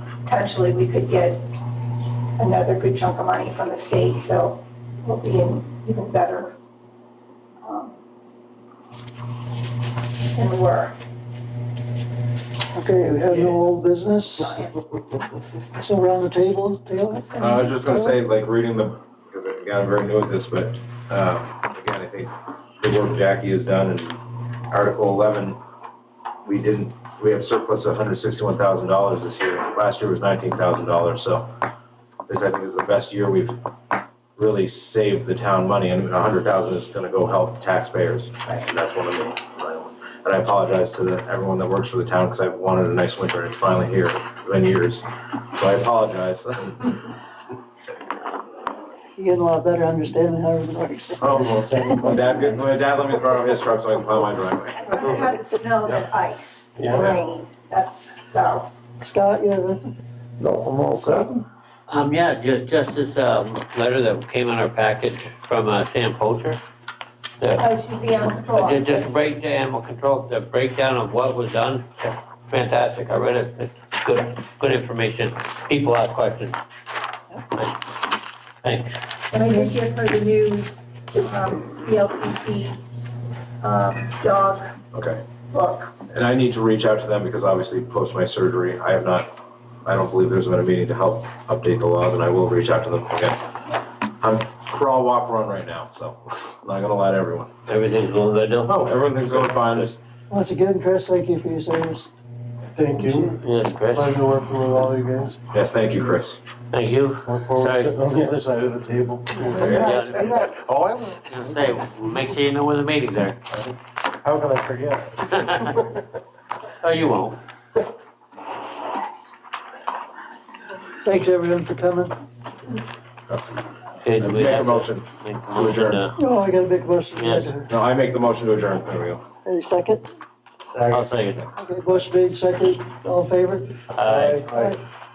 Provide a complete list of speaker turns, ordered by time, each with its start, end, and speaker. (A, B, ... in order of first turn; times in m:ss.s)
0:00.2-0:01.4 A
0:02.4-0:06.6 A
0:07.6-0:08.0 A
0:10.3-0:11.0 A
0:12.7-0:14.6 B
0:14.4-0:14.7 A
0:15.8-0:18.2 B
0:17.4-0:25.6 C
0:26.4-0:31.5 C
0:32.3-0:33.6 C
0:34.4-0:47.1 C
0:49.2-0:52.6 B
0:51.2-0:55.0 C
0:51.4-0:52.6 D
0:54.8-0:58.7 A
0:56.8-0:57.1 D
0:56.9-0:57.2 C
0:59.0-0:59.8 B
1:00.4-1:01.4 D
1:01.9-1:06.6 E
1:07.6-1:09.3 A
1:08.5-1:16.6 E
1:18.6-1:18.9 E
1:19.3-1:22.8 A
1:23.6-1:24.8 A
1:24.9-1:25.2 C
1:25.5-1:26.0 A
1:26.0-1:29.3 C
1:29.8-1:33.5 C
1:34.2-1:37.5 C
1:37.7-1:39.9 E
1:38.6-1:40.0 C
1:40.3-1:42.1 B
1:42.7-1:46.1 D
1:42.9-1:43.4 B
1:43.4-1:44.2 E
1:45.5-1:46.4 C
1:46.7-1:48.4 E
1:47.2-1:51.8 D
1:49.4-1:49.9 B
1:49.5-1:50.5 E
1:49.6-1:50.1 C
1:51.3-1:53.4 E
1:53.5-1:55.8 D
1:55.4-1:55.8 E
1:56.8-1:57.4 E
2:01.0-2:02.1 B
2:04.0-2:06.1 E
2:04.2-2:06.1 C
2:06.2-2:07.7 B
2:07.1-2:07.5 E
2:07.7-2:09.2 C
2:09.4-2:10.1 B
2:10.7-2:11.1 D
2:10.9-2:11.4 E
2:11.3-2:12.0 C
2:11.6-2:13.8 B
2:13.9-2:14.4 E
2:14.0-2:14.8 D
2:14.4-2:14.8 B